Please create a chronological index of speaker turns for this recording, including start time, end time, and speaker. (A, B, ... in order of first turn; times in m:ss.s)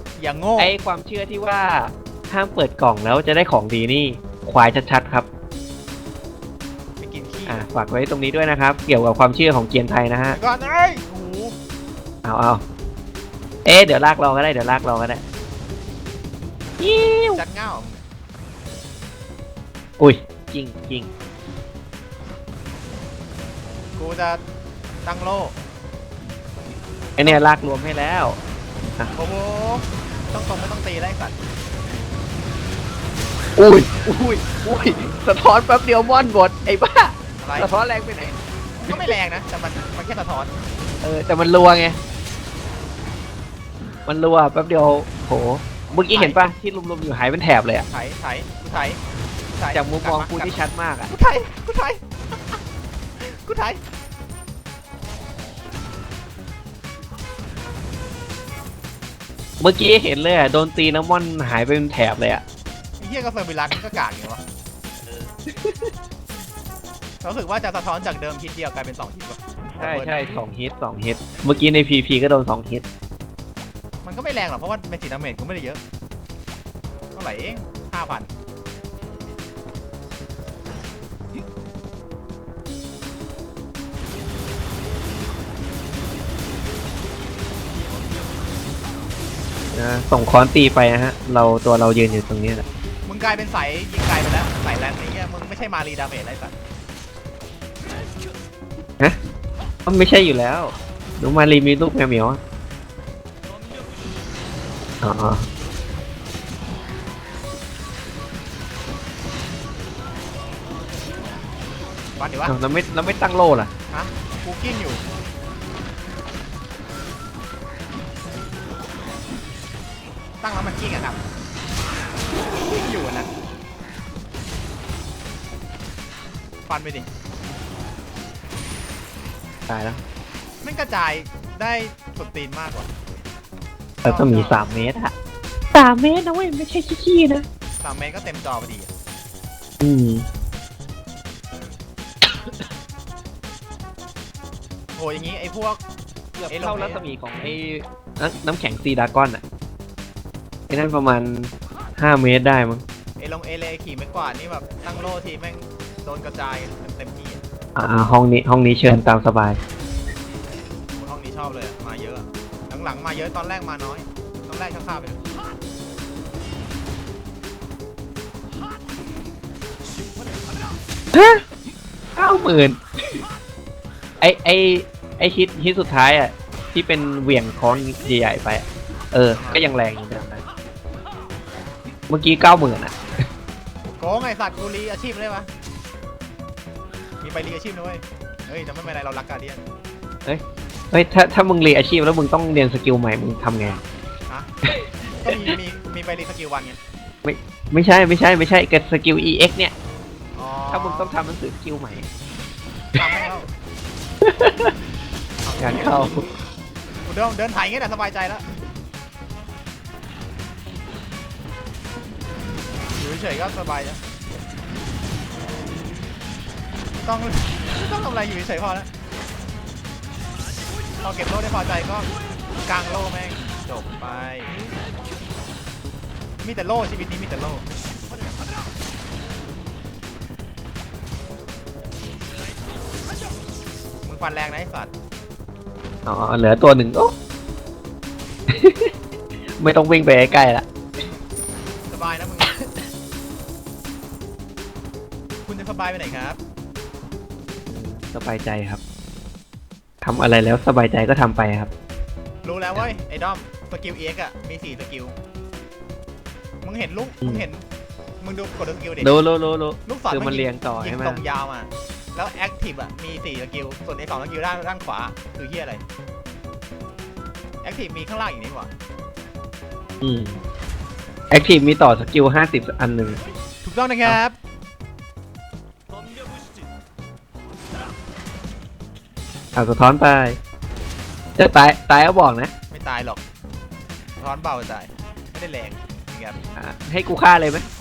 0:00.2-0:00.8 A
0:00.6-0:05.3 B
0:07.0-0:07.7 A
0:07.5-0:10.4 B
0:10.3-0:11.6 A
0:12.2-0:12.6 B
0:13.6-0:15.2 B
0:16.8-0:17.4 B
0:17.3-0:18.0 A
0:20.0-0:21.1 B
0:24.0-0:24.4 A
0:25.0-0:25.6 A
0:27.2-0:28.4 B
0:29.1-0:31.4 A
0:33.6-0:38.4 B
0:37.4-0:37.7 A
0:38.8-0:40.5 A
0:41.0-0:42.0 B
0:44.1-0:47.9 B
0:46.1-0:46.4 A
0:47.8-0:49.0 A
0:49.6-0:52.0 A
0:49.7-0:51.1 B
0:53.2-0:53.8 A
0:59.6-1:02.4 B
1:03.0-1:04.4 A
1:05.5-1:05.9 B
1:07.2-1:10.2 A
1:09.8-1:12.8 B
1:14.0-1:15.8 A
1:17.1-1:18.3 A
1:29.7-1:32.6 B
1:33.1-1:36.6 A
1:39.9-1:42.4 B
1:45.0-1:45.5 B
1:52.2-1:52.6 A
1:52.5-1:53.7 B
1:53.9-1:55.0 A
2:00.4-2:01.2 A
2:02.4-2:03.3 A
2:06.7-2:07.1 A
2:09.7-2:10.0 B
2:10.6-2:12.9 A
2:14.0-2:14.6 A
2:14.0-2:15.1 B
2:15.7-2:17.5 B
2:17.8-2:18.9 A
2:19.8-2:20.3 B
2:25.0-2:25.8 A
2:26.4-2:29.4 B
2:26.5-2:27.0 A
2:30.7-2:32.8 B
2:33.2-2:37.4 A
2:37.8-2:39.6 B
2:40.9-2:45.2 A
2:51.1-2:51.4 B
2:52.2-2:53.2 B
2:54.2-3:00.4 B
2:59.4-2:59.7 A
3:02.1-3:03.0 B
3:04.0-3:05.5 A
3:07.2-3:09.6 A
3:10.2-3:13.8 B
3:14.8-3:15.6 B
3:15.2-3:16.8 A
3:17.2-3:19.7 B
3:20.4-3:21.2 A
3:20.7-3:22.1 B
3:23.0-3:23.5 A
3:24.2-3:24.7 B
3:25.5-3:26.1 A
3:25.6-3:26.3 B
3:27.1-3:28.4 A
3:33.0-3:34.0 A
3:37.0-3:38.9 A
3:41.0-3:42.1 A
3:42.6-3:44.6 A
3:46.4-3:47.6 A
3:54.0-3:54.9 A
3:56.1-3:57.2 B
3:58.5-3:58.9 B
3:59.6-4:00.7 B
4:01.9-4:02.5 A
4:02.5-4:02.8 B
4:05.5-4:06.4 A
4:07.7-4:08.8 B
4:10.0-4:11.7 B
4:12.4-4:15.2 A
4:16.6-4:17.6 A
4:18.2-4:19.2 A
4:19.0-4:21.2 B
4:19.9-4:25.8 A
4:27.6-4:28.7 A
4:30.0-4:30.4 B
4:31.3-4:33.2 B
4:33.6-4:34.4 A
4:39.6-4:40.4 B
4:41.4-4:42.5 B
4:42.7-4:43.2 A
4:44.2-4:46.4 A
4:46.6-4:47.7 B